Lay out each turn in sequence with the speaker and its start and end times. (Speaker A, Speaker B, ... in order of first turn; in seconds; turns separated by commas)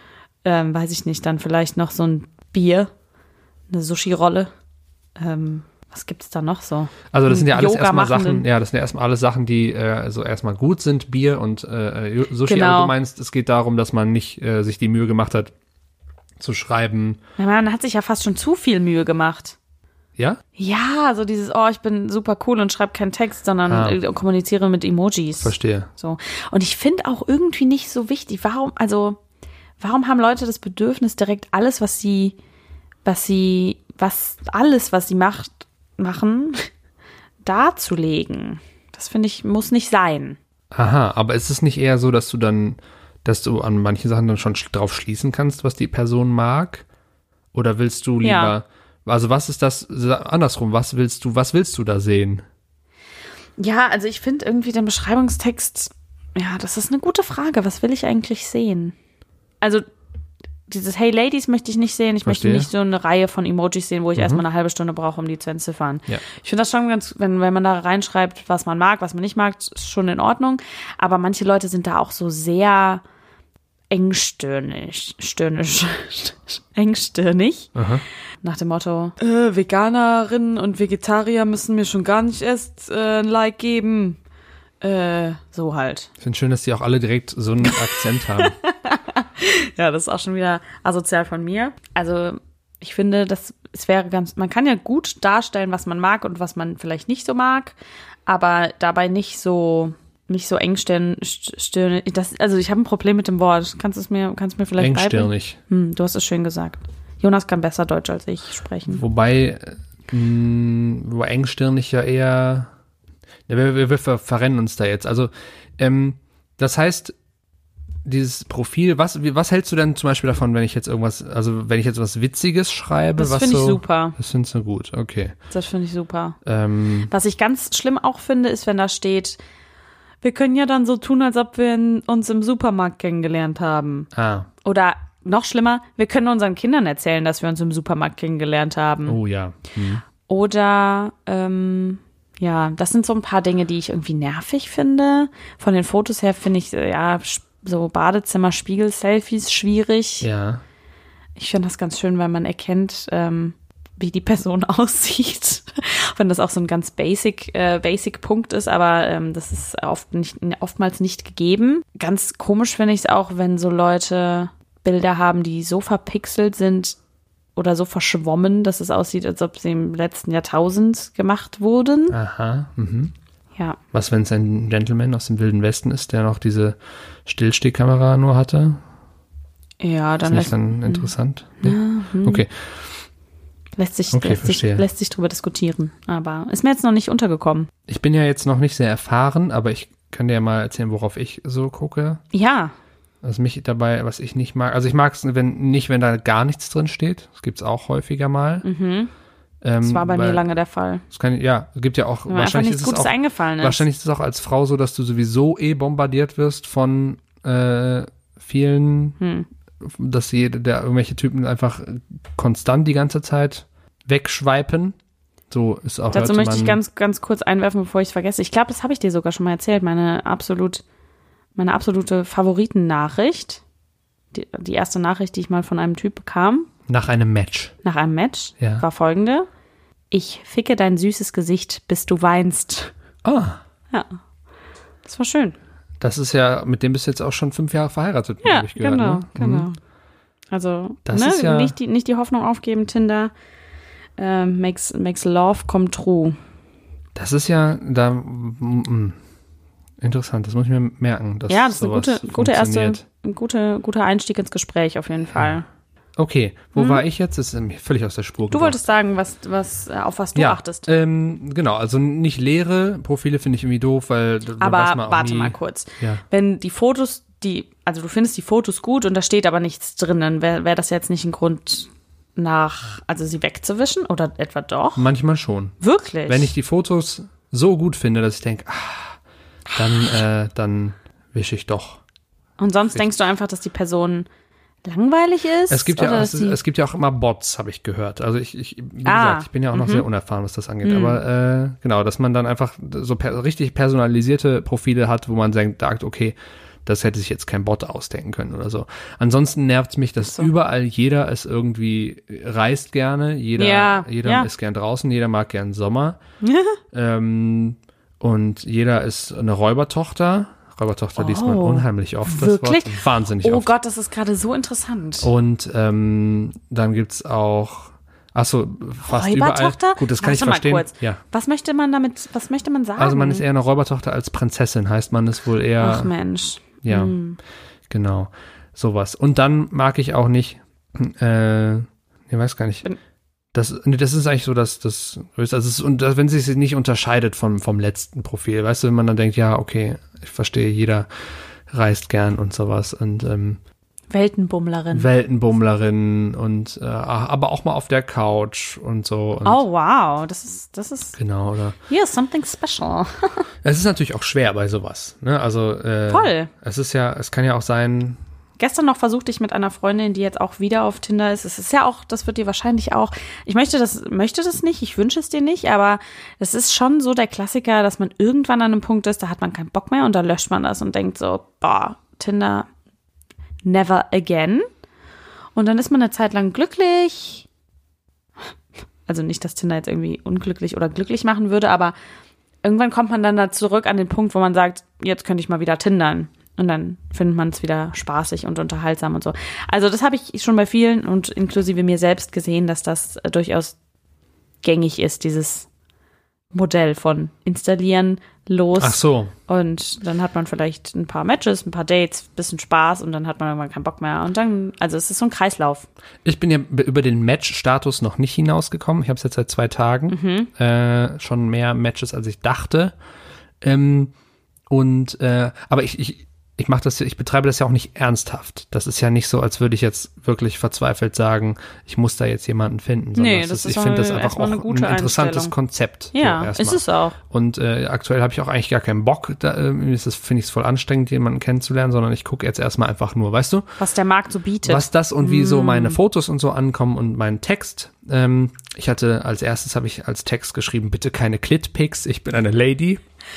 Speaker A: 0.4-2.9, Speaker A: 3.7-4.5, Speaker A: 5.2-8.5, Speaker B: 7.1-15.5, Speaker A: 12.4-12.9, Speaker B: 16.4-17.2, Speaker A: 17.4-19.6, Speaker A: 20.6-29.2, Speaker B: 23.7-24.0, Speaker B: 25.4-25.9, Speaker A: 29.8-32.4, Speaker A: 33.0-36.7, Speaker A: 37.4-40.4, Speaker B: 40.7-46.9, Speaker B: 47.5-52.4, Speaker A: 48.2-48.5, Speaker A: 53.6-59.0, Speaker A: 60.7-73.0, Speaker B: 62.2-62.7, Speaker B: 64.2-64.5, Speaker A: 73.9-77.7, Speaker B: 77.8-78.0, Speaker A: 78.4-84.2, Speaker A: 84.8-86.1, Speaker B: 86.2-88.5, Speaker A: 87.6-109.0, Speaker B: 104.8-105.6, Speaker B: 108.9-112.7, Speaker B: 113.5-117.2, Speaker B: 118.0-125.4, Speaker A: 123.2-124.2, Speaker A: 125.5-126.4, Speaker B: 126.5-127.1, Speaker A: 127.1-129.4, Speaker A: 130.2-134.1, Speaker B: 134.1-134.5, Speaker A: 134.6-139.2, Speaker B: 139.1-140.0, Speaker A: 140.3-150.3, Speaker B: 150.2-150.6, Speaker A: 151.4-167.0, Speaker A: 167.6-172.2, Speaker B: 172.1-173.1, Speaker B: 173.9-178.8, Speaker A: 179.8-181.1, Speaker B: 180.3-182.7, Speaker A: 181.6-182.4, Speaker A: 183.8-187.7, Speaker B: 184.1-184.9, Speaker B: 187.9-192.2, Speaker A: 192.3-192.7, Speaker B: 193.2-198.7, Speaker A: 198.6-199.1, Speaker B: 199.6-200.4, Speaker A: 199.8-201.0, Speaker B: 201.1-209.2, Speaker A: 202.3-203.8, Speaker A: 209.2-209.5, Speaker B: 209.8-215.0, Speaker B: 215.5-216.8, Speaker A: 216.1-220.8, Speaker A: 221.6-223.6, Speaker A: 224.3-226.7, Speaker B: 226.9-227.8, Speaker A: 227.8-229.5, Speaker B: 228.6-228.9, Speaker A: 230.1-232.9, Speaker B: 233.2-233.6, Speaker A: 233.9-234.2, Speaker A: 235.0-235.6, Speaker B: 236.0-239.7, Speaker A: 238.4-239.8, Speaker A: 240.5-243.3, Speaker B: 241.1-241.7, Speaker A: 244.2-246.4, Speaker B: 247.2-249.2, Speaker B: 250.0-253.0, Speaker A: 251.5-255.7, Speaker B: 256.2-258.8, Speaker A: 256.8-257.0, Speaker A: 258.5-260.9, Speaker B: 260.4-266.2, Speaker A: 264.6-275.1, Speaker B: 275.0-275.8, Speaker A: 275.8-276.5, Speaker B: 276.3-279.2, Speaker B: 279.7-282.0, Speaker A: 282.6-284.3, Speaker A: 284.9-286.6, Speaker B: 285.7-306.2, Speaker A: 289.1-290.1, Speaker A: 290.8-291.2, Speaker A: 300.2-300.5, Speaker A: 303.6-304.5, Speaker A: 306.4-306.8, Speaker B: 306.9-313.7, Speaker A: 311.2-315.3, Speaker B: 315.2-321.2, Speaker A: 319.1-323.4, Speaker B: 323.0-326.1, Speaker A: 325.8-327.4, Speaker B: 326.8-327.2, Speaker B: 327.9-332.9, Speaker B: 333.5-341.1, Speaker B: 341.7-343.6, Speaker A: 344.1-345.1, Speaker B: 344.9-349.6, Speaker A: 349.4-351.2, Speaker B: 351.2-351.8, Speaker A: 351.9-353.5, Speaker B: 353.6-358.2, Speaker A: 356.1-356.5, Speaker A: 358.6-372.7, Speaker A: 373.6-374.7, Speaker A: 375.6-377.5, Speaker A: 379.1-381.9, Speaker A: 382.6-393.8, Speaker A: 394.6-395.7, Speaker A: 396.5-405.9, Speaker B: 398.8-399.3, Speaker B: 406.2-412.9, Speaker A: 410.1-410.5, Speaker B: 413.6-414.1, Speaker B: 414.7-433.7, Speaker A: 423.1-425.5, Speaker A: 426.1-427.2, Speaker A: 433.8-436.0, Speaker B: 434.6-443.0